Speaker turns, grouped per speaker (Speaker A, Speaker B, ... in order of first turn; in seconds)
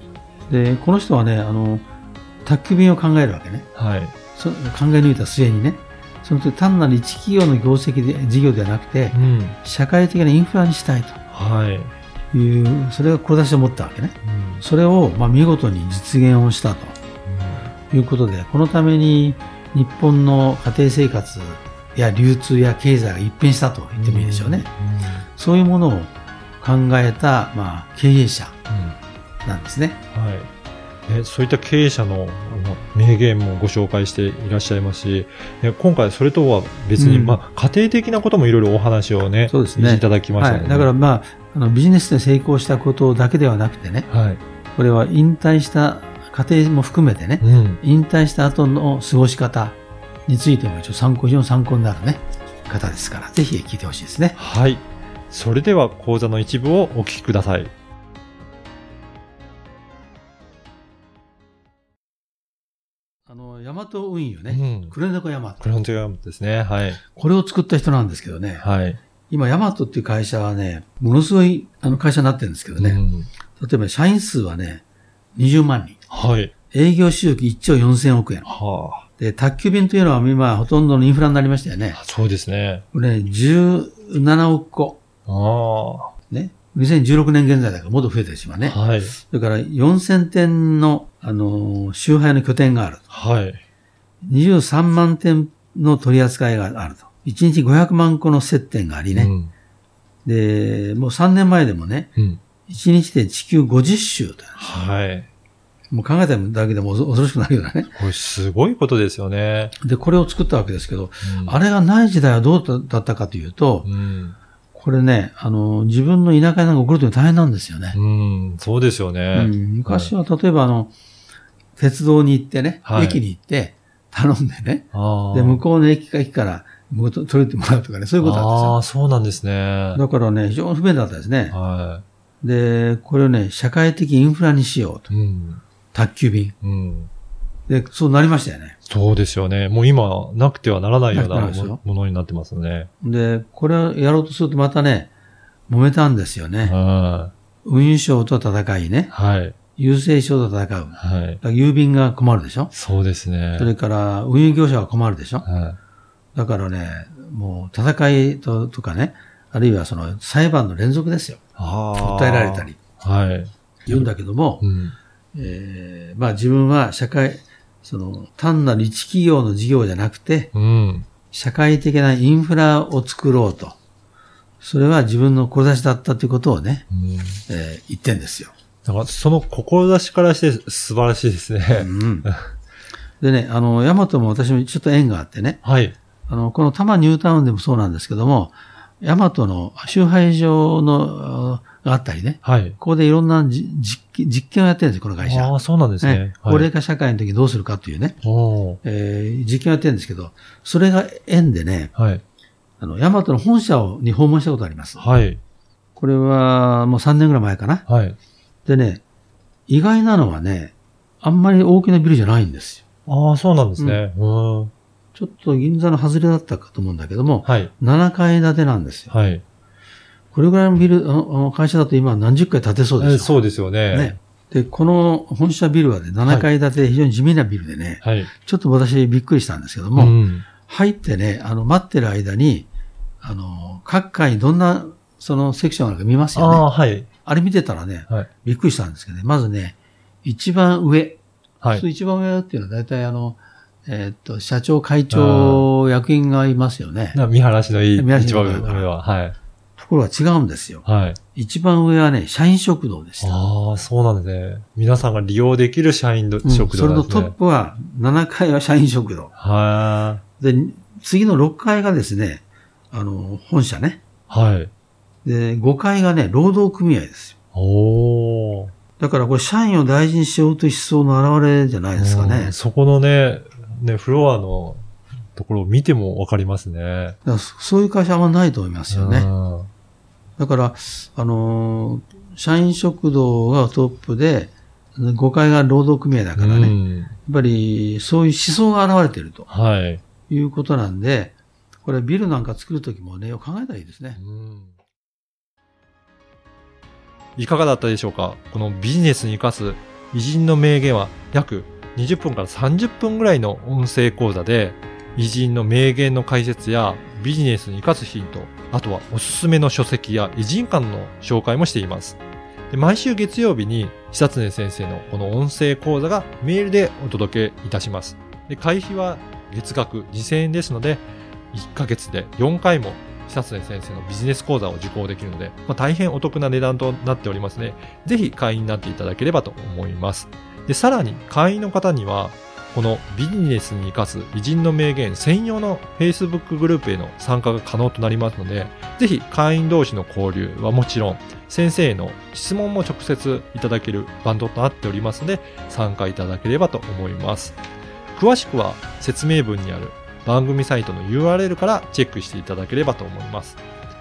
Speaker A: 0.5-1.9, 2.4-3.7, 4.3-11.2, 12.3-16.9, 17.9-24.7, 25.4-28.6, 29.4-30.0, 37.0-37.4, 39.5-44.1, 44.8-54.4, 63.3-65.6, 67.1-68.6, 69.3-73.0, 73.6-74.8, 75.3-76.0, 76.7-78.5, 79.2-82.0, 82.9-85.0, 86.3-93.0, 94.2-99.3, 100.2-102.1, 102.7-104.7, 105.9-108.0, 109.8-113.9, 114.7-118.0, 119.3-120.9, 121.8-128.8, 129.9-131.6, 132.4-135.1, 135.9-136.5, 137.7-138.8, 141.1-141.8, 143.0-145.1, 145.7-146.7, 147.6-149.1, 149.8-152.7, 153.6-155.4, 156.3-161.4, 162.0-162.8, 163.9-164.6, 165.3-170.5, 171.3-173.8, 174.6-176.8, 177.5-178.5, 181.7-182.3, 183.2-185.6, 186.3-198.2, 198.8-201.9, 202.8-205.0, 206.0-207.8, 208.7-209.0, 209.7-212.8, 215.1-219.1, 220.3-223.4, 223.9-232.7, 233.2-236.7, 237.2-247.2, 247.9-248.9, 249.8-253.4, 256.4-259.3, 260.4-264.0, 265.2-267.3, 269.0-272.5, 277.2-279.3, 280.4-289.5, 290.3-294.2
Speaker B: 3.7-4.1, 9.1-9.6, 11.3-11.9, 14.2-14.6, 17.2-17.7, 24.0-25.2, 28.7-29.0, 30.1-30.5, 31.1-40.9, 44.1-44.4, 47.4-47.8, 54.4-57.7, 64.5-64.9, 65.6-67.0, 68.6-69.0, 72.8-73.3, 76.1-76.5, 78.5-79.0, 81.9-82.8, 85.3-86.1, 88.7-89.2, 93.1-93.6, 99.1-99.5, 104.6-105.3, 107.9-109.7, 111.2-111.6, 113.8-114.4, 117.9-120.1, 122.8-123.2, 124.9-125.6, 128.2-130.0, 131.5-132.0, 135.1-135.6, 136.6-137.1, 138.9-142.9, 146.6-147.3, 149.1-149.6, 151.0-151.4, 152.7-153.7, 155.4-155.8, 161.6-164.1, 164.6-164.9, 170.5-171.1, 176.9-177.4, 178.8-182.4, 185.6-185.9, 192.4-192.8, 195.2-196.7, 198.2-198.8, 201.9-202.2, 205.0-205.4, 207.9-208.2, 213.1-214.7, 217.4-217.7, 219.1-219.4, 223.0-224.1, 228.0-228.3, 229.9-230.5, 236.3-237.1, 245.1-245.7, 247.1-249.3, 250.8-251.2, 253.2-257.3, 259.4-260.2, 264.3-264.7, 267.5-268.7, 271.9-274.8, 275.3-277.2, 278.9-279.7, 286.4-287.1, 289.5-290.0, 294.2-294.8, 297.4-312.2, 312.7-347.6, 348.1-353.6